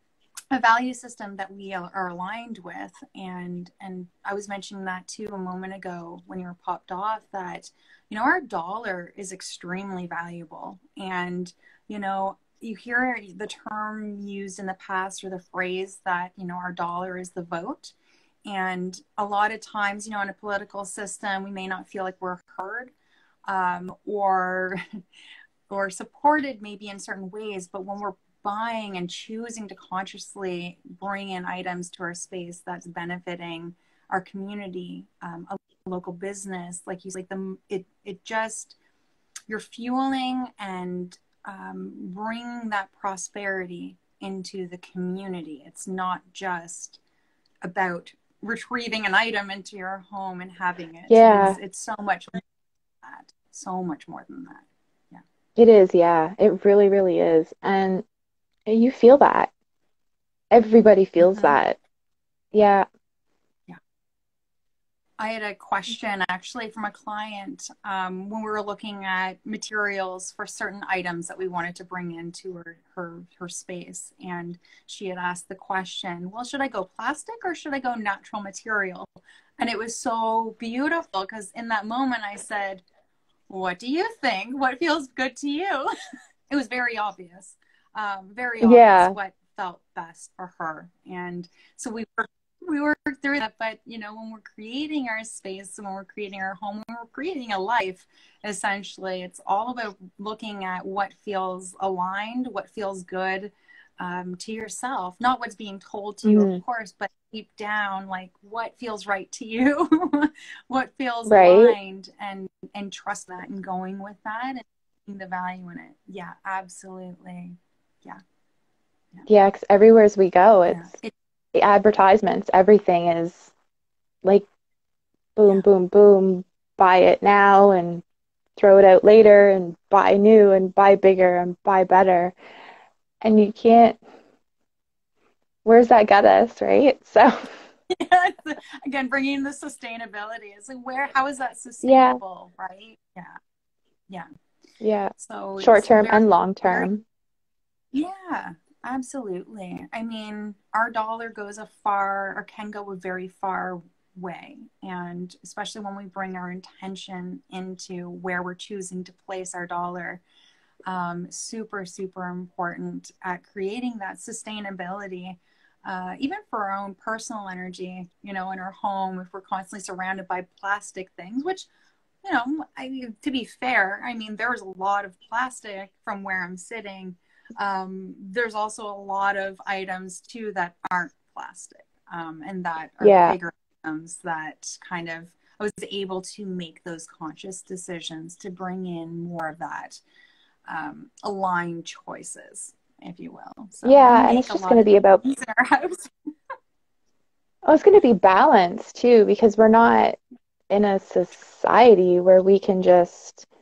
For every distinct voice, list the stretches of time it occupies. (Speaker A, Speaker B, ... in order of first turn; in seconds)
Speaker A: 0.5-17.9, 18.4-22.9, 23.5-24.8, 25.7-38.8, 39.5-47.0, 47.6-52.4, 53.0-55.2, 61.2-61.6, 65.2-82.8, 83.5-85.9, 86.5-118.2, 120.7-121.1, 137.9-143.4, 145.2-146.9, 147.9-160.2, 160.9-171.7, 172.2-190.0, 190.7-196.1
Speaker B: 51.1-51.6, 55.5-58.0, 58.7-59.5, 60.5-61.8, 62.5-62.9, 88.6-89.2, 106.2-106.6, 111.2-111.8, 119.3-120.9, 121.5-123.5, 125.3-128.0, 128.6-132.3, 133.2-134.0, 135.6-137.5, 141.8-142.2, 144.8-147.0, 183.0-183.4, 193.8-195.2, 197.6-200.2, 200.7-203.5